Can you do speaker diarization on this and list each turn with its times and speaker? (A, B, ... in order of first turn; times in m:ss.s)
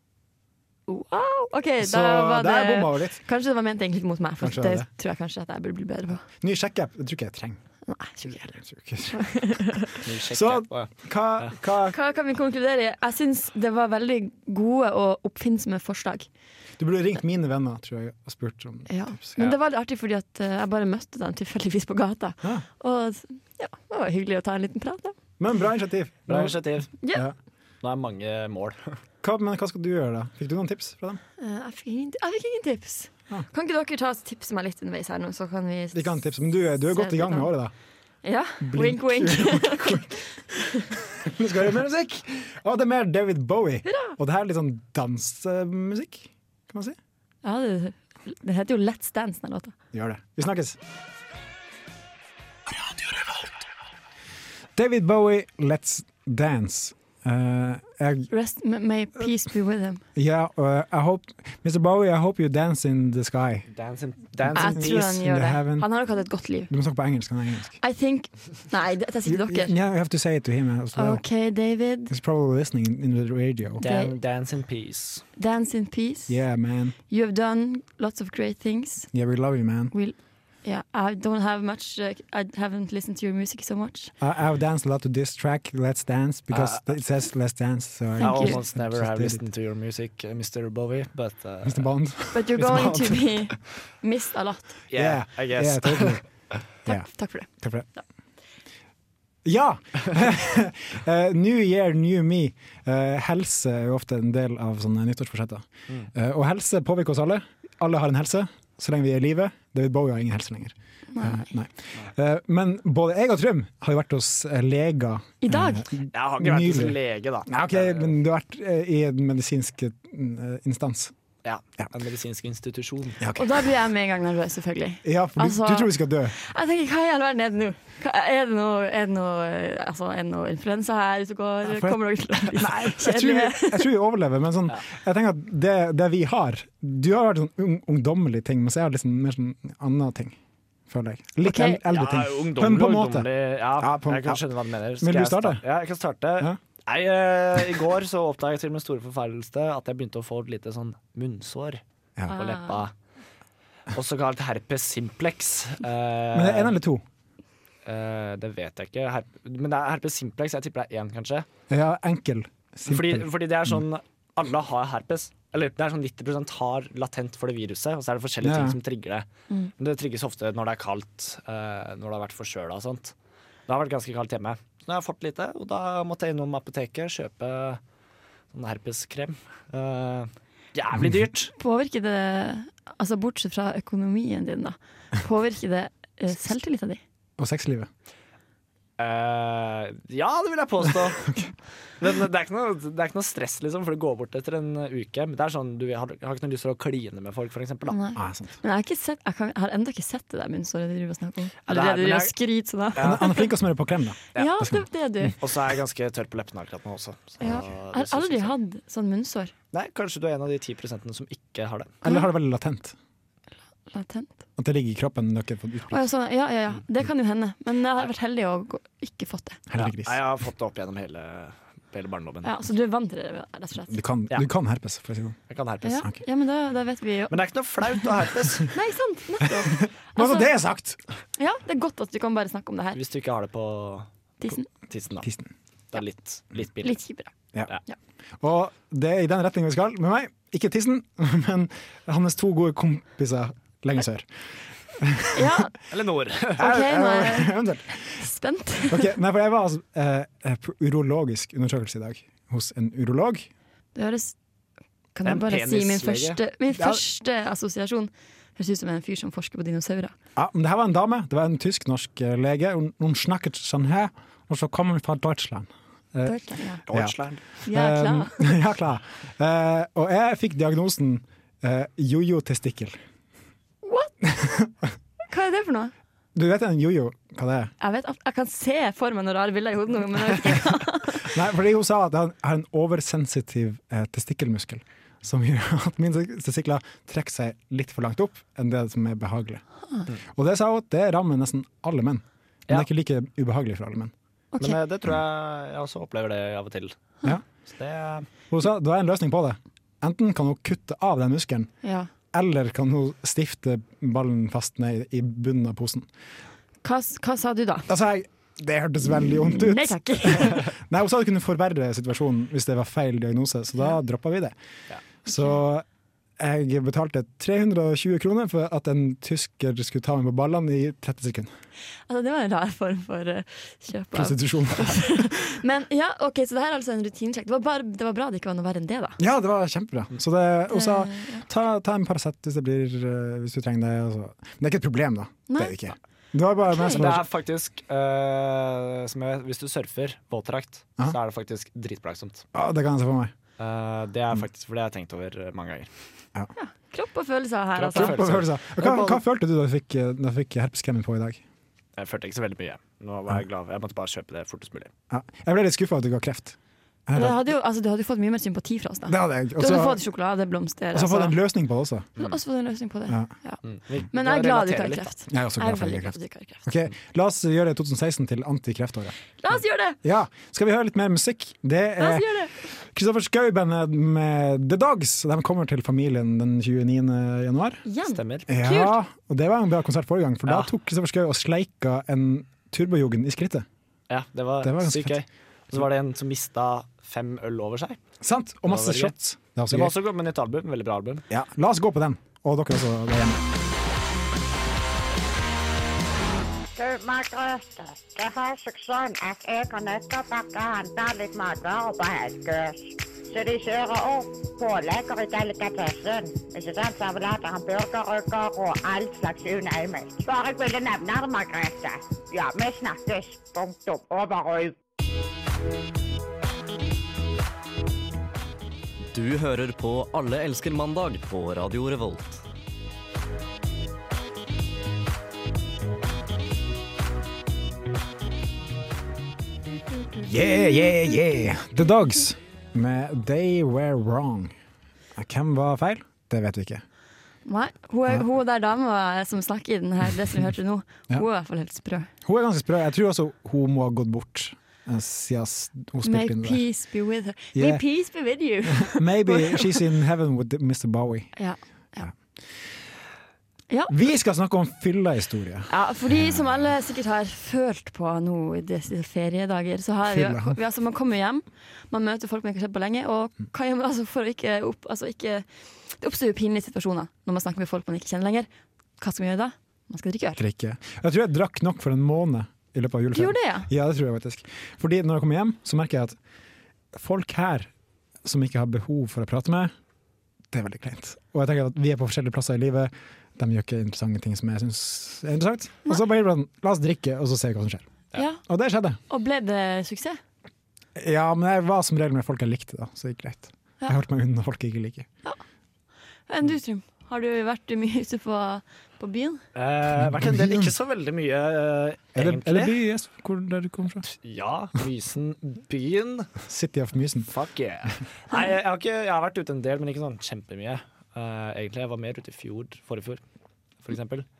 0:00.9-0:06.2 A
0:01.8-0:03.2 B
0:04.4-0:04.9 B
0:06.4-0:07.6 B
0:07.8-0:08.5 A
0:08.2-0:12.0 B
0:09.1-0:10.0 A
0:10.0-0:11.5 C
0:11.9-0:16.3 A
0:16.8-0:19.2 B
0:18.9-0:25.2 A
0:25.4-0:27.3 B
0:26.3-0:26.9 C
0:27.8-0:29.0 C
0:29.2-0:31.2 B
0:31.4-0:36.2 A
0:35.9-0:37.7 B
0:36.8-0:37.5 A
0:38.2-0:40.8 A
0:38.6-0:40.1 B
0:41.0-0:47.0 B
0:43.8-0:44.2 A
0:47.4-0:49.7 A
0:49.9-0:50.8 B
0:54.8-0:58.3 B
0:58.3-1:00.0 A
1:00.1-1:03.7 B
1:03.7-1:05.0 C
1:04.4-1:05.9 B
1:04.5-1:06.7 A
1:06.7-1:07.8 B
1:07.8-1:09.7 A
1:09.2-1:11.2 B
1:10.9-1:12.1 A
1:12.1-1:13.8 B
1:13.8-1:15.2 C
1:13.8-1:14.1 A
1:15.4-1:16.4 A
1:16.3-1:16.9 B
1:17.1-1:19.1 A
1:19.1-1:19.9 B
1:19.9-1:24.1 A
1:24.2-1:29.4 B
1:26.5-1:26.9 C
1:28.2-1:28.6 A
1:28.2-1:31.9 C
1:31.6-1:33.1 B
1:32.3-1:34.7 A
1:32.6-1:33.2 C
1:34.9-1:36.2 C
1:34.9-1:37.9 B
1:36.8-1:37.5 A
1:39.4-2:01.1 B
1:51.1-1:51.5 A
1:55.4-1:55.8 A
1:56.1-1:58.1 C
2:01.4-2:03.2 C
2:03.2-2:03.5 B
2:03.4-2:13.9 A
2:05.0-2:06.3 B
2:11.6-2:20.4 B
2:20.9-2:24.4 B
2:21.4-2:21.8 A
2:21.9-2:32.9 C
2:25.0-2:25.6 B
2:32.3-2:32.8 A
2:33.9-2:36.7 C
2:36.3-2:37.0 B
2:37.8-2:41.5 C
2:41.7-2:43.8 B
2:42.9-2:49.2 C
2:48.4-2:48.8 B
2:49.8-2:53.1 C
2:53.7-2:57.8 C
2:58.5-3:01.5 C
3:01.6-3:07.0 A
3:07.4-3:07.9 B
3:09.0-3:11.3 C
3:12.0-3:18.0 C
3:17.9-3:23.5 A
3:18.2-3:18.6 B
3:21.6-3:22.3 C
3:22.9-3:23.2 C
3:23.0-3:24.8 B
3:24.3-3:25.4 A
3:25.4-3:28.5 C
3:27.4-3:29.5 A
3:29.7-3:32.0 C
3:32.0-3:32.9 B
3:33.9-3:34.3 A
3:34.6-3:36.1 B
3:35.9-3:39.6 A
3:39.7-3:40.2 B
3:39.8-3:42.5 C
3:42.4-3:44.0 A
3:43.9-3:45.4 B
3:45.5-3:46.1 C
3:45.8-3:47.4 A
3:47.3-3:48.7 C
3:48.7-3:50.5 A
3:49.6-3:51.0 B
3:51.4-3:53.0 A
3:52.9-3:54.1 C
3:54.4-3:54.7 A
3:54.8-3:55.3 C
3:55.9-3:57.0 C
3:56.8-3:57.3 A
3:58.4-4:04.3 B
4:04.9-4:05.6 B
4:05.3-4:05.7 A
4:05.9-4:06.7 C
4:06.6-4:08.2 B
4:06.6-4:07.6 A
4:08.1-4:09.1 A
4:08.9-4:13.5 B
4:13.9-4:14.4 A
4:15.1-4:20.1 A
4:15.2-4:16.4 C
4:16.7-4:17.0 B
4:20.4-4:26.4 B
4:26.2-4:26.8 A
4:26.9-4:33.0 B
4:26.9-4:27.4 C
4:27.6-4:28.6 A
4:33.8-4:34.1 A
4:34.2-4:34.7 B
4:35.3-4:35.9 A
4:36.3-4:37.7 B
4:37.8-4:41.3 A
4:41.2-4:49.6 B
4:50.3-4:54.1 B
4:54.5-4:54.8 A
4:54.6-4:56.9 C
4:57.6-4:58.3 C
4:58.5-5:01.7 B
5:01.8-5:02.1 A
5:02.3-5:06.1 B
5:06.8-5:07.9 A
5:07.9-5:14.5 B
5:09.3-5:10.6 A
5:15.2-5:15.8 B
5:16.4-5:21.5 B
5:22.1-5:29.2 A
5:24.1-5:25.6 B
5:29.2-5:37.2 B
5:30.7-5:31.4 A
5:35.5-5:35.8 A
5:36.7-5:37.0 A
5:36.9-5:42.4 C
5:42.5-5:43.3 B
5:43.6-5:45.9 C
5:46.5-5:48.3 A
5:47.8-5:49.2 C
5:47.9-5:51.4 B
5:52.0-5:54.9 C
5:55.1-5:56.6 B
5:57.1-5:57.4 B
5:57.1-6:01.4 A
5:59.1-6:00.0 B
6:00.9-6:02.1 B
6:02.2-6:03.6 A
6:03.6-6:05.1 C
6:04.1-6:06.7 A
6:05.3-6:09.2 B
6:09.4-6:10.0 A
6:10.0-6:17.8 B
6:12.0-6:12.5 A
6:17.8-6:19.0 A
6:18.1-6:18.5 C
6:18.5-6:23.6 B
6:24.1-6:28.0 C
6:24.6-6:25.2 B
6:28.2-6:29.9 B
6:28.6-6:29.1 C
6:29.7-6:31.2 C
6:31.3-6:33.4 B
6:36.8-6:54.8 D
6:59.1-7:02.4 E
7:10.2-7:14.5 B
7:10.6-7:10.8 A
7:15.2-7:16.8 B
7:17.4-7:22.1 A
7:22.2-7:26.6 B
7:26.0-7:29.8 A
7:27.5-7:27.8 B
7:28.7-7:31.3 B
7:31.4-7:32.1 A
7:33.9-7:36.2 B
7:35.7-7:48.5 A
7:40.1-7:40.6 B
7:49.0-7:50.4 A
7:50.4-7:56.2 B
7:53.1-7:53.7 A
7:56.9-7:57.7 B
7:58.2-7:59.7 B
8:00.5-8:07.8 B
8:08.1-8:08.4 A
8:08.4-8:09.0 B
8:09.1-8:10.2 A
8:11.0-8:15.1 B
8:16.3-8:19.4 A
8:19.5-8:22.8 C
8:20.0-8:20.7 B
8:22.2-8:24.0 B
8:24.0-8:26.3 C
8:26.4-8:27.3 B
8:27.3-8:33.2 C
8:33.8-8:34.2 C